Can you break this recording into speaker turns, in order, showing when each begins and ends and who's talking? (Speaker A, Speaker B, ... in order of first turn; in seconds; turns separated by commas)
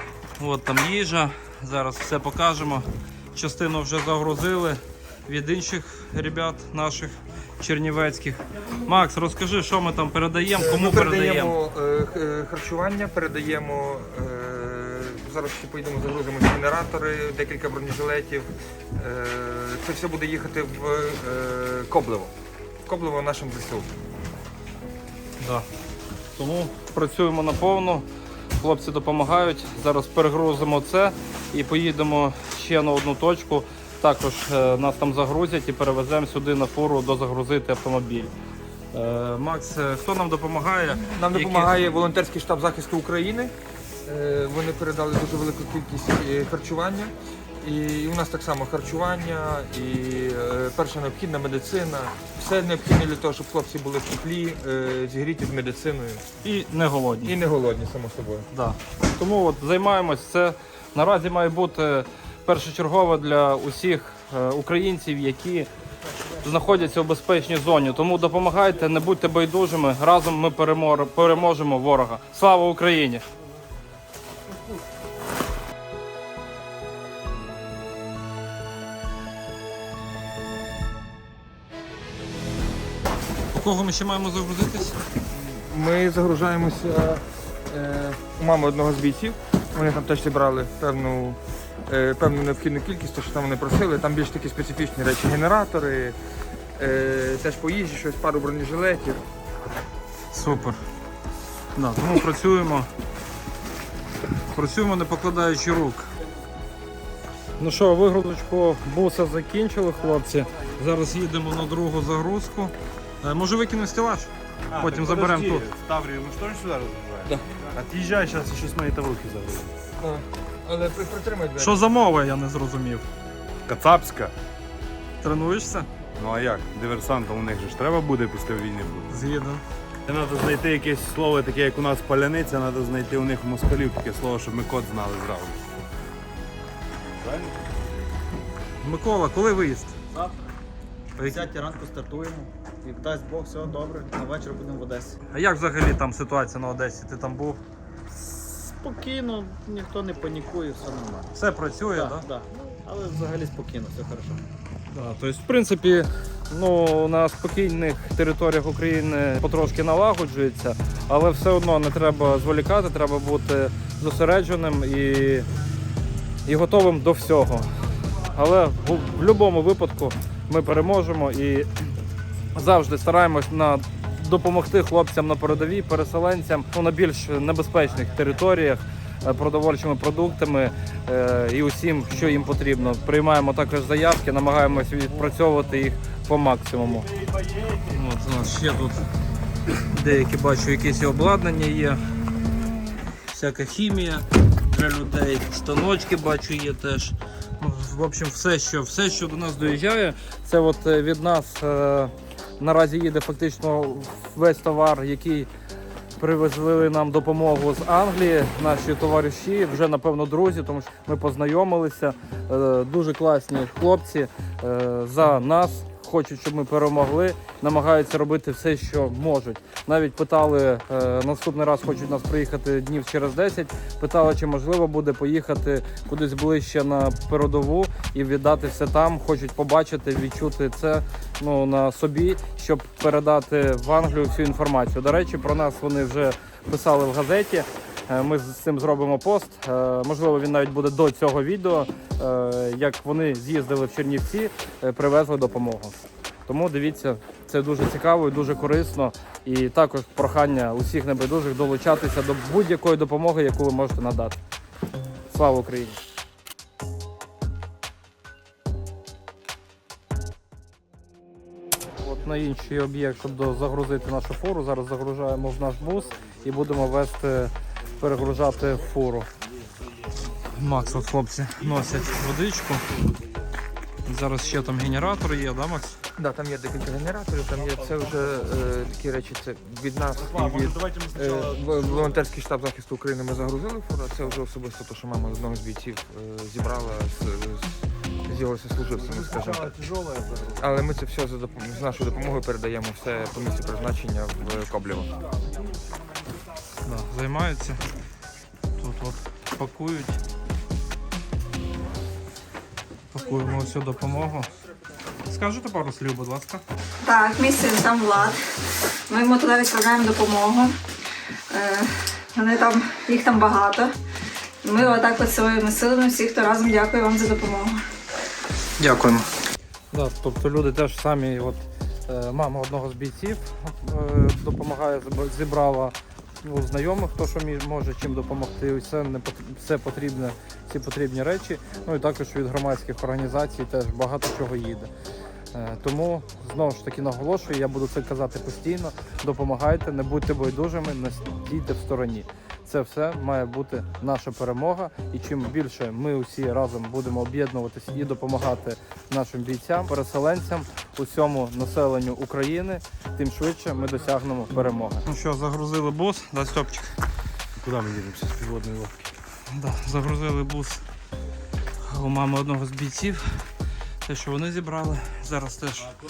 Speaker A: 0.4-11.6, Speaker B: 10.5-22.3, Speaker B: 22.9-23.9, Speaker A: 25.4-25.6, Speaker A: 26.3-28.1, Speaker A: 28.6-38.3, Speaker A: 38.9-41.8, Speaker B: 41.1-43.5, Speaker B: 44.0-56.2, Speaker A: 56.4-57.4, Speaker B: 57.2-58.5, Speaker A: 58.5-65.7, Speaker A: 66.4-73.2, Speaker A: 83.5-85.0, Speaker B: 85.3-96.2, Speaker B: 96.8-99.2, Speaker A: 100.3-100.8, Speaker A: 101.8-102.9, Speaker A: 104.5-106.1, Speaker A: 107.6-115.7, Speaker C: 114.7-119.7, Speaker B: 120.0-121.8, Speaker A: 121.6-123.0, Speaker C: 123.7-124.3, Speaker A: 125.2-125.9, Speaker C: 126.2-129.1, Speaker A: 129.1-129.6, Speaker C: 130.1-135.6, Speaker C: 137.1-137.7, Speaker A: 138.8-139.9, Speaker A: 141.2-141.5, Speaker D: 141.4-145.1, Speaker A: 145.3-147.6, Speaker D: 148.2-151.3, Speaker A: 151.3-152.3, Speaker D: 152.2-154.4, Speaker A: 154.9-165.5, Speaker A: 166.4-167.7, Speaker A: 168.2-171.7, Speaker A: 172.5-187.1, Speaker A: 187.7-189.0, Speaker A: 189.9-192.0, Speaker A: 193.2-205.5, Speaker A: 206.2-245.9, Speaker A: 246.4-254.4, Speaker A: 255.3-256.0, Speaker A: 262.0-269.3, Speaker A: 270.4-272.8, Speaker A: 274.1-276.0, Speaker B: 276.2-295.1, Speaker A: 296.8-297.8, Speaker A: 298.8-300.2, Speaker A: 303.1-304.5, Speaker A: 305.2-306.6, Speaker E: 307.0-308.4, Speaker E: 309.1-310.8, Speaker E: 311.5-313.9, Speaker E: 314.6-317.8, Speaker A: 318.8-319.3, Speaker A: 319.9-334.9, Speaker A: 335.5-356.9, Speaker C: 357.6-359.1, Speaker A: 359.5-360.8, Speaker A: 361.8-363.2, Speaker A: 364.0-365.9